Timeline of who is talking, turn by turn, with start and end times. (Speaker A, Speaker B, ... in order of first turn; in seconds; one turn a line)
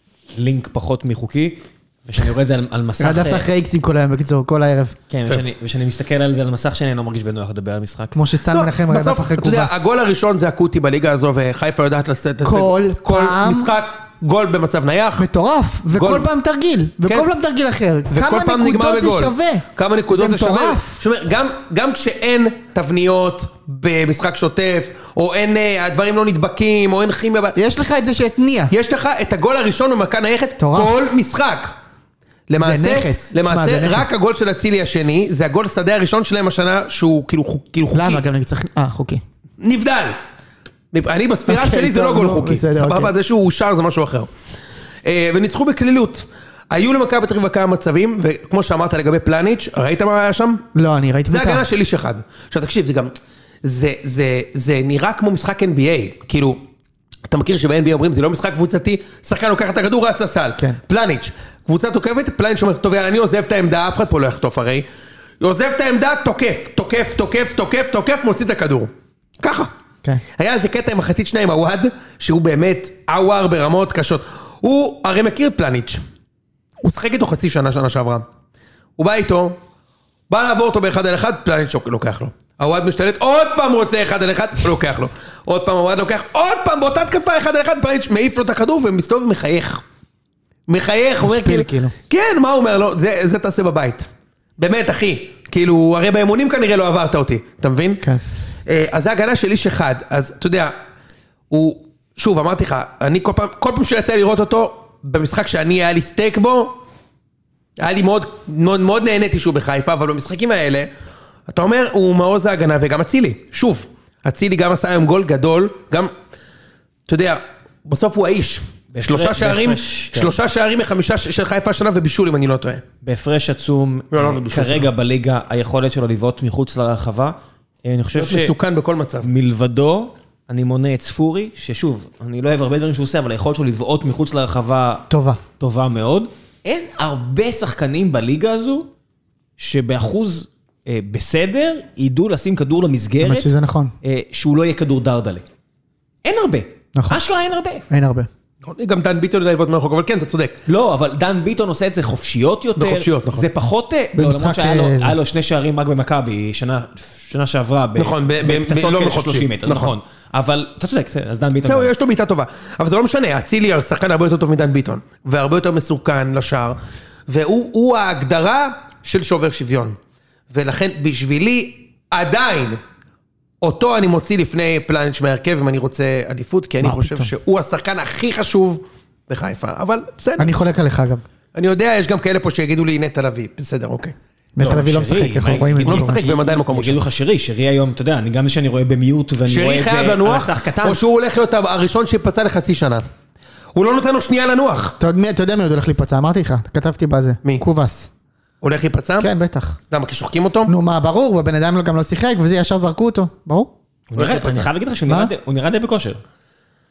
Speaker A: 0.4-3.5
Speaker B: 3.0-5.0
Speaker A: 5.1-8.2
Speaker B: 8.2-9.9
Speaker C: 8.5-15.3
Speaker B: 12.4-13.7
Speaker B: 15.2-21.0
Speaker C: 15.9-16.3
Speaker C: 18.1-27.6
Speaker B: 27.6-28.7
Speaker C: 28.7-31.7
Speaker B: 30.6-31.0
Speaker C: 32.5-38.2
Speaker B: 32.6-34.2
Speaker B: 37.9-39.2
Speaker C: 39.6-40.2
Speaker C: 40.9-44.3
Speaker B: 41.5-43.1
Speaker C: 45.0-50.6
Speaker B: 50.8-51.6
Speaker C: 51.3-56.6
Speaker C: 57.3-64.9
Speaker C: 65.4-69.7
Speaker C: 70.4-76.0
Speaker C: 76.8-78.2
Speaker C: 79.0-79.6
Speaker C: 80.3-89.8
Speaker C: 90.7-98.0
Speaker B: 91.2-91.9
Speaker C: 98.7-100.8
Speaker C: 101.5-106.8
Speaker C: 107.8-110.9
Speaker C: 111.5-116.1
Speaker C: 117.1-122.8
Speaker A: 118.9-120.4
Speaker A: 123.0-128.5
Speaker C: 124.1-124.9
Speaker C: 128.1-129.3
Speaker A: 129.2-135.1
Speaker B: 135.1-135.4
Speaker A: 135.6-138.9
Speaker A: 139.6-143.5
Speaker B: 143.2-143.9
Speaker A: 144.0-145.4
Speaker A: 146.2-147.8
Speaker B: 146.9-147.2
Speaker B: 147.9-148.3
Speaker C: 148.6-150.6
Speaker A: 150.7-161.9
Speaker C: 152.8-153.5
Speaker B: 154.2-155.2
Speaker C: 158.0-159.9
Speaker C: 161.6-166.8
Speaker C: 167.3-170.0
Speaker C: 170.5-172.8
Speaker C: 173.6-180.5
Speaker B: 176.8-177.3
Speaker B: 180.4-181.2
Speaker C: 181.6-184.2
Speaker B: 184.6-186.2
Speaker A: 184.6-191.0
Speaker C: 185.8-187.0
Speaker C: 189.5-193.0
Speaker C: 193.8-195.0
Speaker B: 195.0-198.1
Speaker C: 198.6-199.3
Speaker B: 199.2-199.8
Speaker C: 199.9-200.7
Speaker B: 200.7-203.7
Speaker A: 204.1-206.2
Speaker C: 204.2-204.7
Speaker B: 205.1-205.3